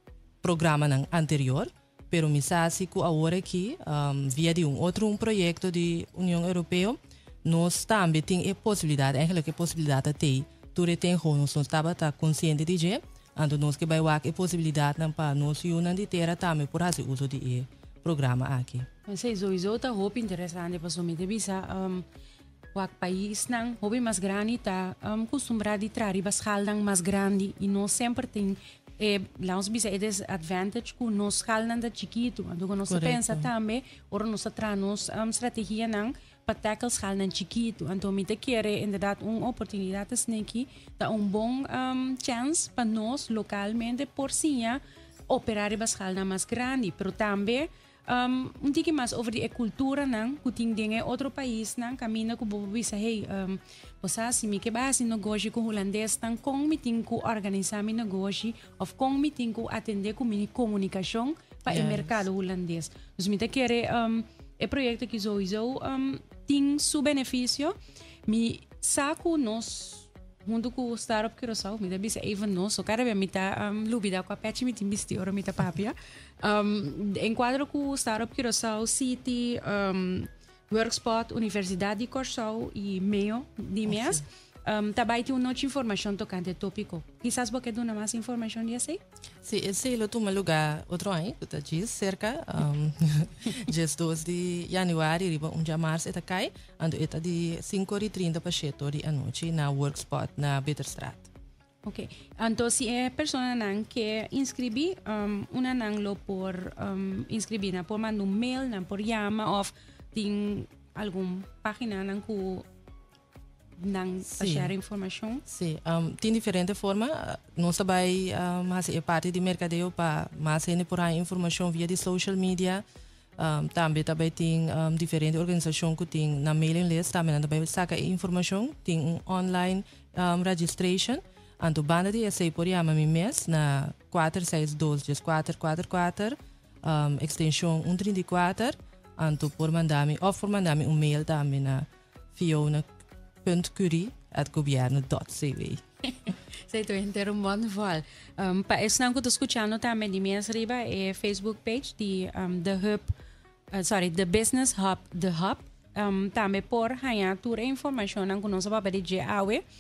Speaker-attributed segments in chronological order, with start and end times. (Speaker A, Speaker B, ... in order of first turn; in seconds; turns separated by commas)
Speaker A: 0.4-18.9, Speaker B: 19.1-22.0, Speaker B: 22.7-67.8, Speaker A: 32.9-33.5, Speaker A: 61.7-62.1, Speaker B: 68.3-89.0, Speaker A: 83.9-84.2, Speaker A: 89.4-101.3, Speaker B: 101.8-112.6, Speaker B: 113.8-115.4, Speaker A: 114.3-114.7, Speaker A: 115.5-122.8, Speaker A: 123.4-142.8, Speaker A: 143.4-145.8, Speaker B: 146.1-153.1, Speaker B: 153.7-159.6